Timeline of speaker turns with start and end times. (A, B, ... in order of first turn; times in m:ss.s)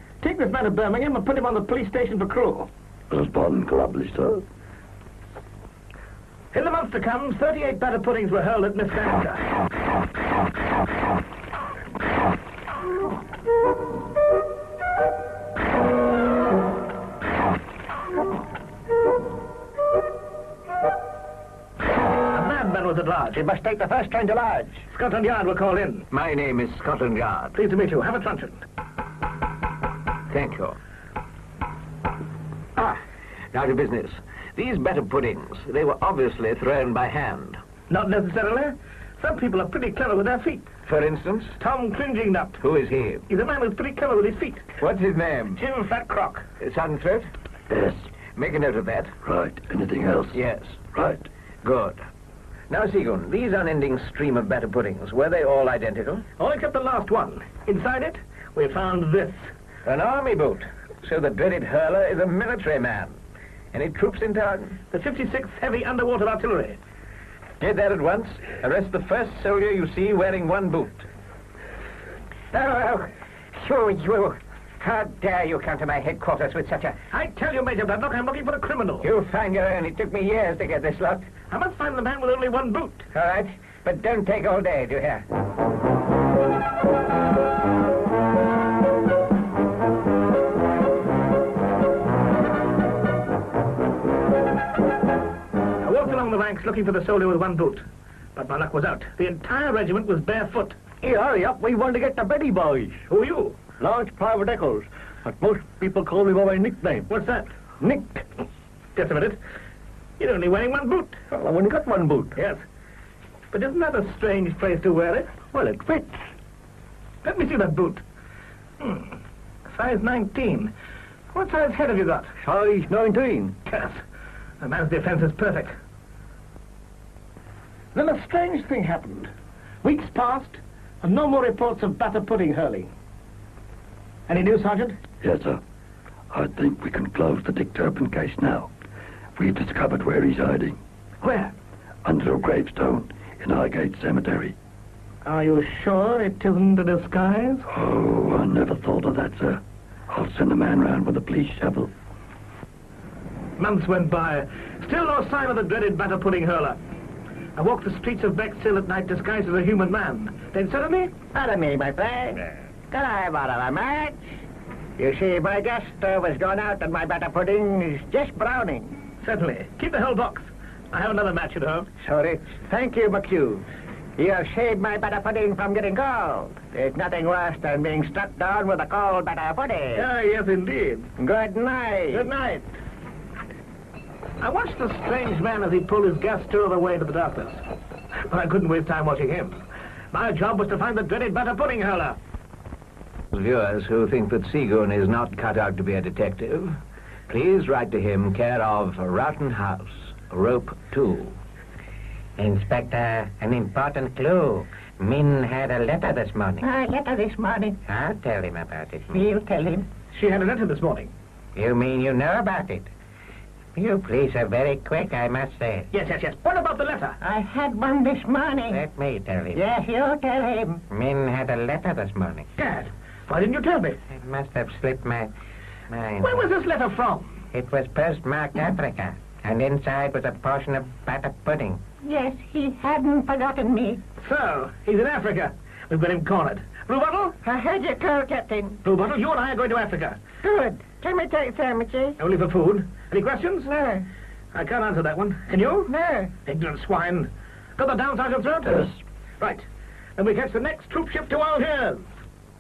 0:00.2-0:02.7 A
0:03.1-0:04.4 B
0:06.5-0:09.4 A
0:22.3-0:23.4 A
0:23.5-0:24.7 C
0:24.9-0:26.0 A
0:26.1-0:27.6 D
0:27.6-0:28.6 A
0:30.3-0:30.8 D
0:33.5-0:37.6 D
0:37.9-0:40.7 A
0:40.9-0:41.6 D
0:41.6-0:42.6 A
0:42.6-0:43.3 D
0:43.3-0:44.7 A
0:44.8-0:45.6 D
0:45.6-0:46.4 A
0:46.6-0:47.3 D
0:47.7-0:48.1 B
0:48.4-0:49.2 D
0:49.2-0:50.4 B
0:50.3-0:50.9 D
0:51.0-0:51.2 B
0:51.6-0:52.0 D
0:52.7-0:56.2 D
0:56.4-0:59.5 A
0:59.8-1:03.2 D
1:03.7-1:04.8 D
1:04.9-1:06.8 A
1:07.6-1:11.1 D
1:12.5-1:17.0 E
1:17.1-1:19.1 A
1:19.0-1:21.2 E
1:21.5-1:23.1 A
1:23.1-1:25.2 E
1:35.8-1:37.8 A
1:38.4-1:40.8 A
1:41.0-1:43.0 F
1:43.1-1:43.6 A
1:43.8-1:47.1 F
1:47.1-1:47.5 A
1:47.8-1:48.2 F
1:49.0-1:49.4 A
1:50.2-1:51.2 A
1:51.3-1:52.4 F
1:52.4-1:52.6 A
1:53.5-1:55.4 A
1:55.5-1:56.2 F
1:57.2-1:58.0 A
1:58.8-1:59.1 A
1:59.7-2:00.7 A
2:01.3-2:02.3 A
2:02.4-2:03.5 F
2:03.7-2:04.0 A
2:04.6-2:05.7 A
2:08.0-2:09.3 A
2:09.8-2:12.9 A
2:14.3-2:15.0 A
2:15.2-2:15.6 B
2:16.3-2:18.7 B
2:19.4-2:20.8 B
2:21.2-2:21.5 A
2:22.0-2:24.6 B
2:25.2-2:27.7 A
2:27.7-2:31.9 B
2:33.6-2:36.8 A
2:37.6-2:41.2 A
2:41.3-2:44.2 C
2:45.0-2:49.0 C
2:49.2-2:51.9 A
2:52.0-2:53.6 C
2:54.2-3:00.1 C
3:00.0-3:01.1 A
3:01.2-3:02.2 C
3:02.1-3:02.7 A
3:04.4-3:07.6 A
3:08.3-3:12.2 A
3:13.3-3:16.8 D
3:17.3-3:21.4 D
3:22.4-3:26.7 E
3:26.6-3:27.8 C
3:27.8-3:29.3 E
3:29.1-3:29.9 C
3:30.1-3:31.1 A
3:31.6-3:32.9 E
3:33.8-3:35.9 E
3:35.9-3:37.2 A
3:37.2-3:38.8 C
3:38.7-3:39.7 E
3:39.5-3:40.8 C
3:40.9-3:42.5 E
3:42.6-3:44.0 A
3:44.1-3:45.3 E
3:45.9-3:46.4 E
3:46.2-3:47.4 A
3:47.5-3:51.9 E
3:52.0-3:54.0 C
3:54.2-3:57.4 A
3:57.4-3:58.8 E
3:58.8-4:00.2 A
4:00.4-4:02.2 E
4:02.2-4:03.7 A
4:03.6-4:04.1 E
4:04.5-4:05.9 A
4:05.9-4:06.3 E
4:06.5-4:09.6 A
4:10.2-4:12.1 A